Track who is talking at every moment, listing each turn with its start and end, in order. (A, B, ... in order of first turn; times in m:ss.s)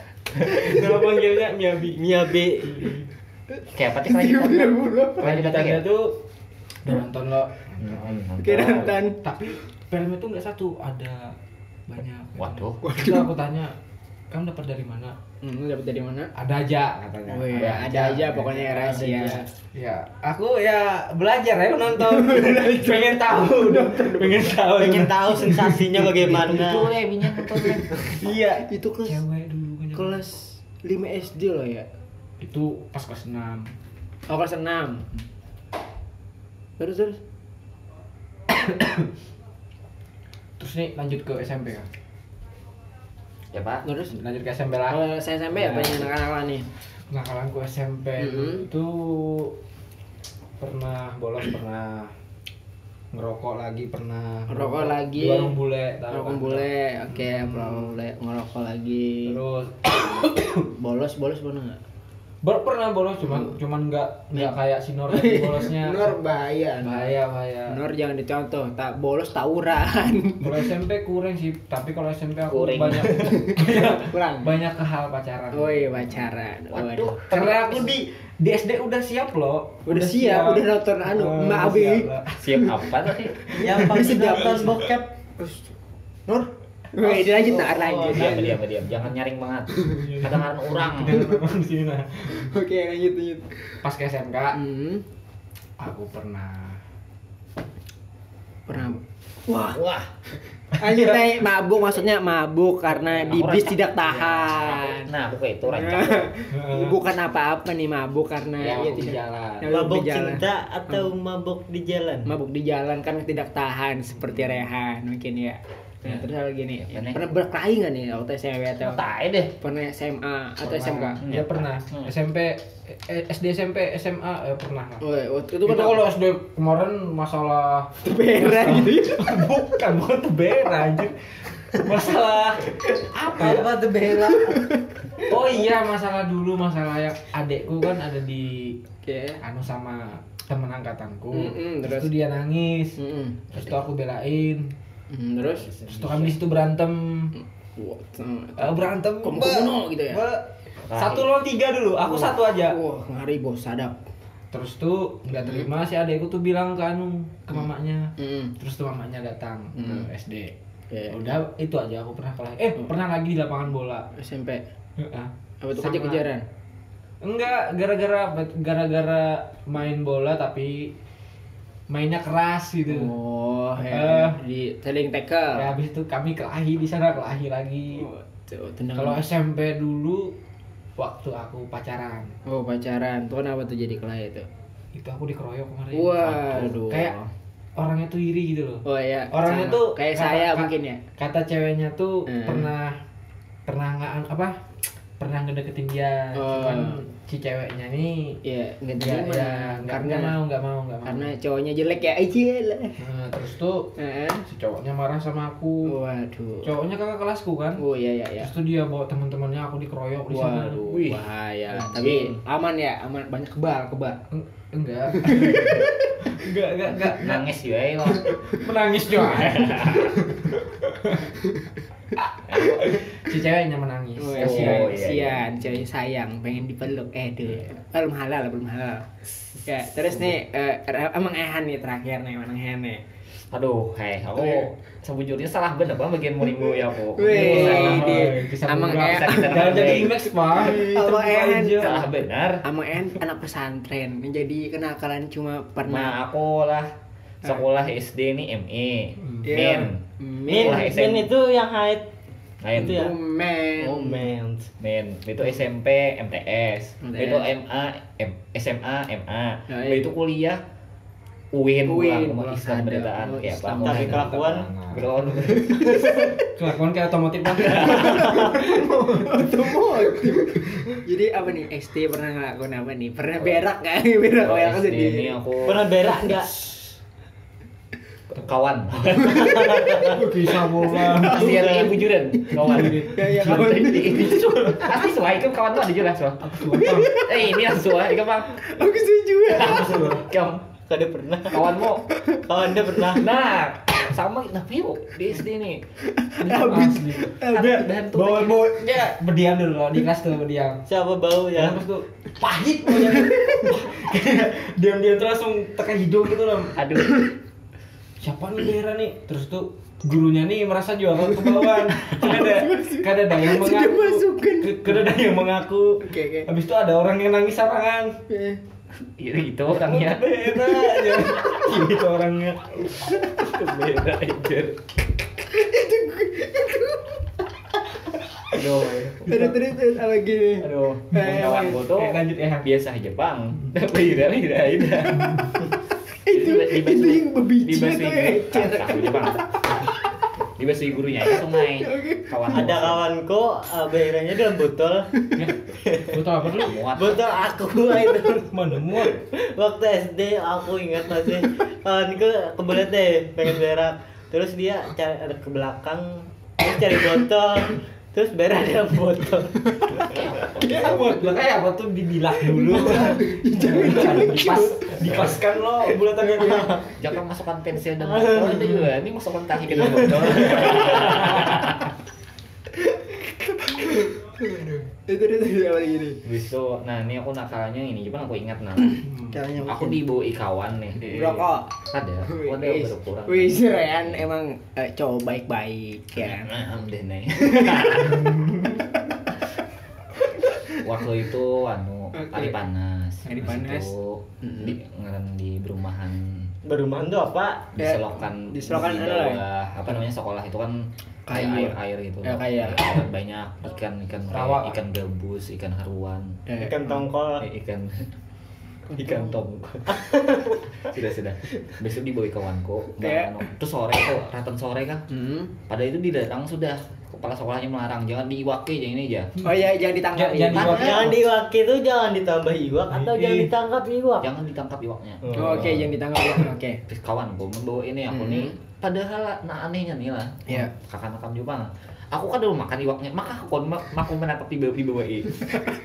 0:00.3-0:00.9 A
0:00.4-0:03.0 B
0:02.0-0:03.0 C
0:03.7-0:05.9 A
0:04.0-0:05.4 D
0:05.2-0:06.2 B
0:06.8-0:08.2 B
0:07.8-0:09.0 A
0:08.4-0:09.2 D
0:09.2-0:11.3 B
0:11.9-0:13.7 B
0:12.4-0:12.8 A
0:12.8-0:13.3 D
0:14.3-0:15.2 B
0:15.4-0:16.3 D
0:16.3-0:26.5 B
0:17.3-0:19.4 D
0:17.6-0:17.9 A
0:22.0-0:24.6 D
0:24.7-0:26.9 C
0:26.4-0:28.1 A
0:28.1-0:30.2 B
0:28.4-0:29.2 D
0:29.9-0:31.9 D
0:32.4-0:33.7 B
0:34.3-0:35.0 D
0:36.8-0:37.2 D
0:38.6-0:39.1 B
0:40.6-0:41.9 B
0:43.5-0:43.8 A
0:43.8-0:44.1 D
0:44.1-0:45.0 B
0:44.9-0:46.7 D
0:45.6-0:46.1 B
0:47.1-0:49.5 B
0:48.2-0:48.6 D
0:50.6-0:52.1 B
0:53.1-0:57.9 B
0:54.5-0:55.6 D
0:56.1-0:59.4 D
0:59.2-1:00.2 B
1:00.0-1:01.8 D
1:02.4-1:06.2 B
1:05.1-1:07.1 D
1:06.8-1:07.8 B
1:07.7-1:10.6 D
1:10.4-1:16.4 B
1:12.5-1:13.3 A
1:13.2-1:14.5 D
1:15.5-1:17.2 D
1:16.7-1:17.9 A
1:17.3-1:22.6 B
1:19.8-1:22.1 D
1:22.4-1:23.4 A
1:23.3-1:24.8 B
1:23.6-1:25.1 C
1:23.7-1:24.9 D
1:25.4-1:25.6 D
1:26.9-1:28.4 D
1:27.0-1:28.4 C
1:28.1-1:31.2 A
1:28.2-1:28.5 B
1:29.8-1:32.5 B
1:32.3-1:33.4 D
1:33.8-1:34.6 B
1:34.5-1:35.0 D
1:35.8-1:36.8 B
1:38.7-1:39.8 D
1:39.7-1:40.1 A
1:40.8-1:45.1 D
1:40.8-1:41.3 B
1:43.3-1:46.3 A
1:45.7-1:51.1 D
1:46.5-1:47.0 B
1:48.6-1:49.4 A
1:48.6-1:49.6 B
1:49.7-1:52.3 C
1:52.2-1:59.0 D
1:56.8-1:57.2 A
1:58.8-1:59.5 A
1:59.6-2:01.2 D
2:00.6-2:05.0 B
2:01.2-2:02.1 A
2:05.0-2:06.0 D
2:05.6-2:14.6 B
2:08.0-2:09.4 D
2:13.3-2:14.9 D
2:15.2-2:18.8 B
2:19.0-2:19.4 D
2:19.4-2:23.0 B
2:21.3-2:22.1 D
2:23.0-2:23.4 D
2:23.5-2:24.7 B
2:25.1-2:26.3 D
2:25.8-2:27.3 B
2:27.4-2:30.2 D
2:28.6-2:32.8 B
2:30.9-2:31.3 A
2:32.0-2:34.0 D
2:34.5-2:40.5 B
2:35.3-2:35.7 D
2:38.2-2:38.5 D
2:39.8-2:40.1 D
2:40.9-2:41.2 D
2:41.1-2:44.1 B
2:44.1-2:44.6 D
2:45.0-2:46.3 B
2:45.6-2:46.4 D
2:47.2-2:50.9 B
2:51.9-2:53.1 B
2:52.9-2:55.7 D
2:53.8-2:54.4 B
2:55.5-2:58.0 B
2:58.0-2:59.2 D
2:59.0-3:00.3 B
3:01.0-3:02.3 B
3:02.4-3:04.4 D
3:04.9-3:07.1 B
3:05.9-3:07.3 D
3:07.8-3:13.0 B
3:08.8-3:11.0 D
3:12.3-3:12.7 D
3:13.7-3:14.6 B
3:15.2-3:18.4 B
3:16.3-3:17.0 D
3:18.4-3:20.3 D
3:19.0-3:21.3 B
3:21.0-3:23.0 D
3:23.0-3:23.9 B
3:24.0-3:24.4 D
3:24.4-3:25.9 B
3:25.8-3:26.7 D
3:26.6-3:27.8 B
3:27.8-3:28.5 D
3:28.4-3:31.1 B
3:30.3-3:34.2 D
3:31.9-3:32.4 A
3:34.3-3:37.4 B
3:35.2-3:36.4 D
3:37.1-3:38.4 A
3:38.1-3:41.4 B
3:39.2-3:40.2 A
3:42.2-3:45.0 B
3:42.5-3:43.0 A
3:44.2-3:53.0 D
3:44.4-3:45.6 A
3:53.5-3:58.2 A
3:57.1-4:02.0 D
3:57.2-4:02.0 B
3:59.0-4:00.2 A
4:01.8-4:02.6 A
4:02.6-4:06.1 D
4:05.8-4:06.9 A
4:07.4-4:11.3 A
4:09.4-4:10.9 D
4:10.5-4:12.1 C
4:12.6-4:13.0 A
4:12.7-4:13.2 C
4:12.8-4:14.3 D
4:13.8-4:14.7 C
4:14.8-4:20.6 A
4:17.0-4:17.5 D
4:19.7-4:20.1 D
4:21.5-4:26.1 A
4:21.8-4:24.2 D
4:23.8-4:24.7 C
4:24.0-4:25.1 B
4:25.4-4:26.5 D
4:26.2-4:30.9 B
4:27.5-4:28.3 A
4:27.7-4:35.4 D
4:34.4-4:35.9 A
4:35.6-4:36.5 C
4:38.3-4:40.1 A
4:39.2-4:39.5 D
4:39.2-4:40.2 C
4:40.1-4:41.8 B
4:40.8-4:41.8 D
4:41.2-4:41.9 C
4:41.2-4:48.6 A
4:42.5-4:44.8 B
4:42.5-4:45.0 D
4:46.4-4:47.1 B
4:46.6-4:47.6 D
4:48.5-4:50.1 D
4:49.5-4:50.6 A
4:49.6-4:50.3 B
4:50.9-4:53.4 C
4:51.5-4:52.0 A
4:52.1-4:52.4 D
4:53.1-4:55.8 A
4:56.1-4:57.9 D
4:56.4-4:57.4 B
4:56.5-4:58.6 A
4:58.1-5:00.8 B
5:00.9-5:01.8 C
5:01.5-5:06.8 B
5:03.1-5:03.7 D
5:06.8-5:07.2 A
5:08.2-5:18.2 B
5:11.4-5:14.9 D
5:16.0-5:16.5 D
5:18.3-5:18.6 D
5:19.0-5:20.4 A
5:19.7-5:23.1 B
5:23.2-5:24.8 A
5:25.5-5:27.1 D
5:28.5-5:29.3 A
5:29.2-5:31.8 D
5:29.3-5:29.5 B
5:30.6-5:35.5 A
5:31.2-5:32.7 B
5:36.2-5:39.9 D
5:36.3-5:39.4 A
5:40.6-5:43.0 A
5:41.4-5:42.5 D
5:42.5-5:45.1 C
5:45.2-5:45.4 D
5:45.4-5:46.8 B
5:45.8-6:00.2 C
5:46.6-5:47.3 A
5:48.5-5:49.2 B
6:00.0-6:01.0 A
6:00.6-6:06.9 B
6:02.6-6:04.8 D
6:04.3-6:05.4 A
6:06.1-6:06.8 C
6:07.0-6:11.9 A
6:08.0-6:08.8 C
6:09.8-6:10.9 C
6:13.5-6:16.2 D
6:16.2-6:24.2 A
6:19.3-6:20.0 D
6:21.0-6:21.7 D
6:22.2-6:26.5 D
6:26.1-6:28.4 A
6:28.2-6:28.6 B
6:30.7-6:36.5 A
6:32.1-6:32.6 D
6:33.2-6:33.9 D
6:34.4-6:34.7 D
6:36.6-6:37.7 C
6:37.8-6:46.4 A
6:37.8-6:39.4 D
6:41.3-6:43.0 D
6:44.3-6:44.8 B
6:46.5-6:46.9 D
6:46.6-6:47.4 C
6:47.4-6:48.1 A
6:48.9-6:49.3 D
6:49.0-6:49.9 A
6:49.9-6:50.6 C
6:50.8-6:55.0 A
6:53.0-6:53.3 D
6:55.1-6:55.5 D
6:55.7-6:59.3 A
6:59.4-7:01.0 D
7:00.1-7:01.2 B
7:00.5-7:01.1 A
7:00.7-7:04.3 C
7:02.9-7:03.5 B
7:04.2-7:05.9 A
7:05.3-7:06.8 D
7:05.4-7:05.7 C
7:06.9-7:15.6 A
7:08.1-7:08.5 D